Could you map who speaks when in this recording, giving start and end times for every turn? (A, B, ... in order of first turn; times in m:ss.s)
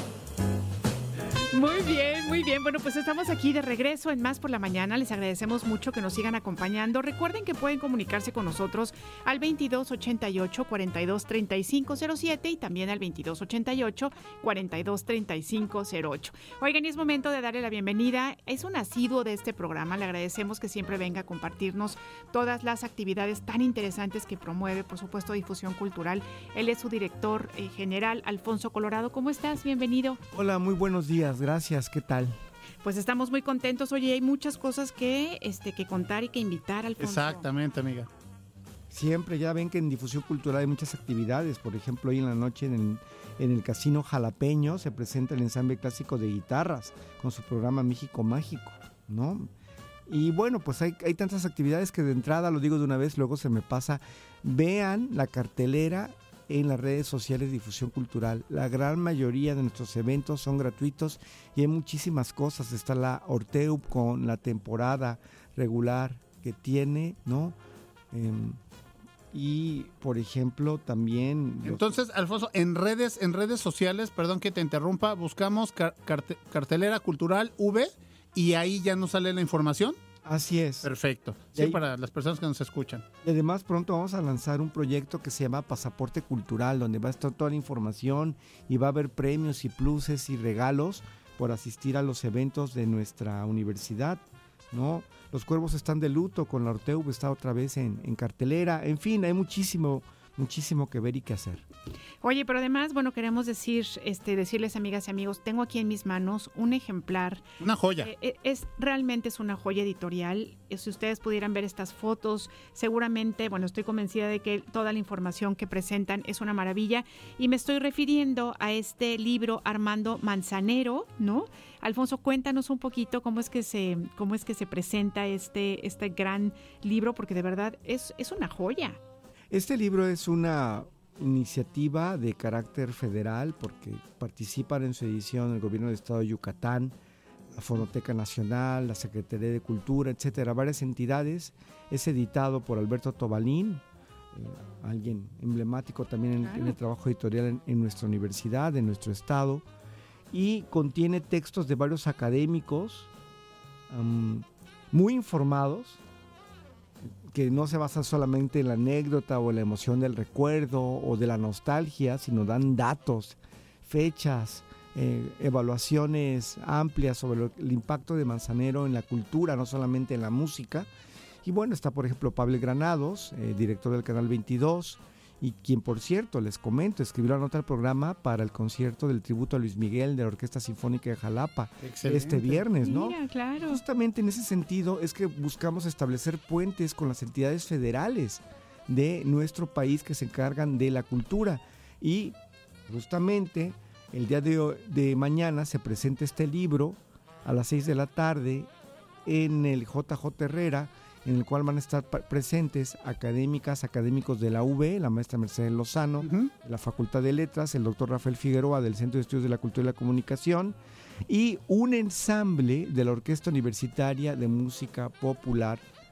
0:01.5-0:30.2 A
0:30.3-0:32.4 B
0:32.8-0:37.4 A
0:37.0-0:38.1 C
0:38.9-0:49.5 B
0:50.1-1:07.5 B
1:08.1-1:08.6 B
1:09.3-1:11.9 B
1:11.6-1:20.0 C
1:20.2-1:20.9 B
1:20.8-1:23.0 C
1:23.2-1:41.6 B
1:42.2-1:47.4 A
1:47.6-1:48.1 C
1:48.0-2:09.0 A
2:09.5-2:16.9 B
2:17.6-2:23.8 B
2:17.6-2:17.8 C
2:24.3-2:29.6 B
2:26.4-2:26.8 A
2:30.3-2:33.1 B
2:33.9-2:36.0 B
2:37.1-2:50.9 B
2:51.4-3:12.3 B
3:01.8-3:02.6 C
3:02.8-3:03.8 A
3:12.9-3:18.7 B
3:19.2-3:30.7 B
3:26.2-3:26.5 C
3:31.3-3:35.8 B